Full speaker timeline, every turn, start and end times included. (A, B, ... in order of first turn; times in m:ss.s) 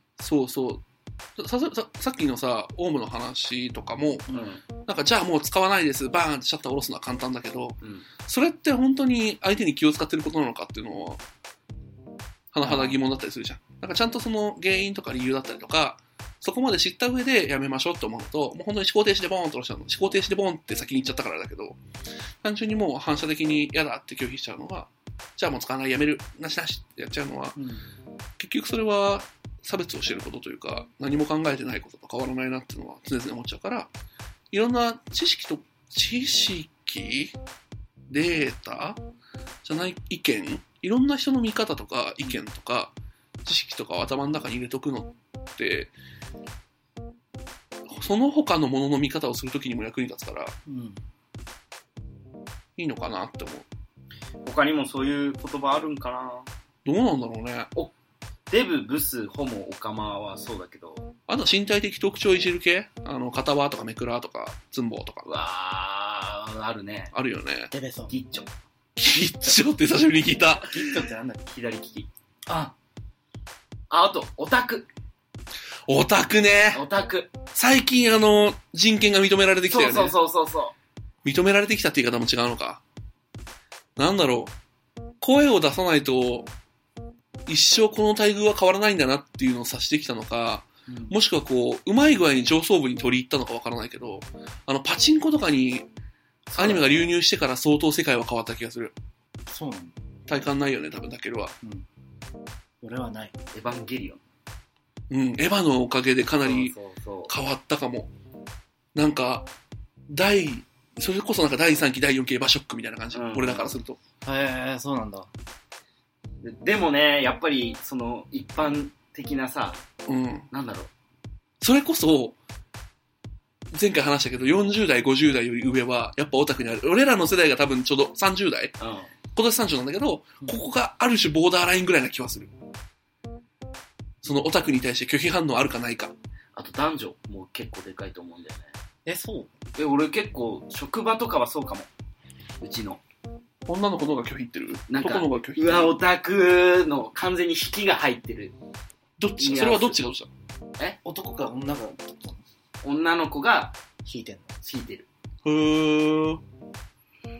0:00.2-0:00.8 A
0:01.4-0:04.3 A
0:04.3-0:04.6 B
0:04.8-0:11.2 A
0:07.8-0:08.1 B
0:12.5-0:21.8 A
0:12.6-0:13.0 C
0:22.4-0:27.6 A
0:28.4-0:33.9 A
0:34.5-0:37.4 A
0:38.1-0:39.0 A
0:39.6-0:45.9 A
0:47.9-0:50.6 A
0:50.7-0:51.0 C
0:52.8-0:53.7 A
0:54.4-0:56.5 B
0:56.8-0:57.7 A
0:58.5-1:01.1 B
1:01.3-1:05.3 A
1:05.2-1:07.1 B
1:07.1-1:07.7 A
1:07.7-1:08.1 C
1:08.1-1:08.5 B
1:09.0-1:10.9 A
1:10.6-1:11.4 C
1:11.5-1:12.1 B
1:12.5-1:12.7 C
1:13.9-1:14.9 B
1:15.9-1:16.8 A
1:16.7-1:17.3 B
1:17.5-1:20.2 A
1:19.7-1:20.7 B
1:21.2-1:22.8 A
1:24.0-1:24.5 A
1:25.2-1:26.5 A
1:27.4-1:35.9 A
1:30.9-1:31.2 C
1:36.5-1:37.1 B
1:36.6-1:38.9 A
1:39.5-1:40.0 C
1:40.3-1:41.5 A
1:42.8-1:43.3 C
1:43.5-1:44.2 B
1:45.1-1:46.7 A
1:46.4-1:47.3 B
1:47.3-1:48.1 A
1:49.0-1:49.5 A
1:50.1-1:54.0 A
1:53.1-1:53.7 B
1:54.2-1:55.3 C
1:56.4-1:59.8 B
2:00.1-2:00.5 A
2:00.5-2:00.9 B
2:01.6-2:02.4 A
2:03.7-2:08.8 A
2:08.8-2:09.1 B
2:09.3-2:12.5 A
2:14.2-2:16.1 A
2:16.6-2:18.7 B
2:19.0-2:19.5 C
2:19.8-2:21.9 B
2:22.6-2:23.0 B
2:23.7-2:26.0 A
2:24.9-2:28.6 B
2:29.2-2:30.3 A
2:29.4-2:30.0 B
2:31.0-2:32.4 C
2:32.8-2:33.8 B
2:34.0-2:34.5 C
2:34.6-2:35.0 B
2:35.4-2:36.4 A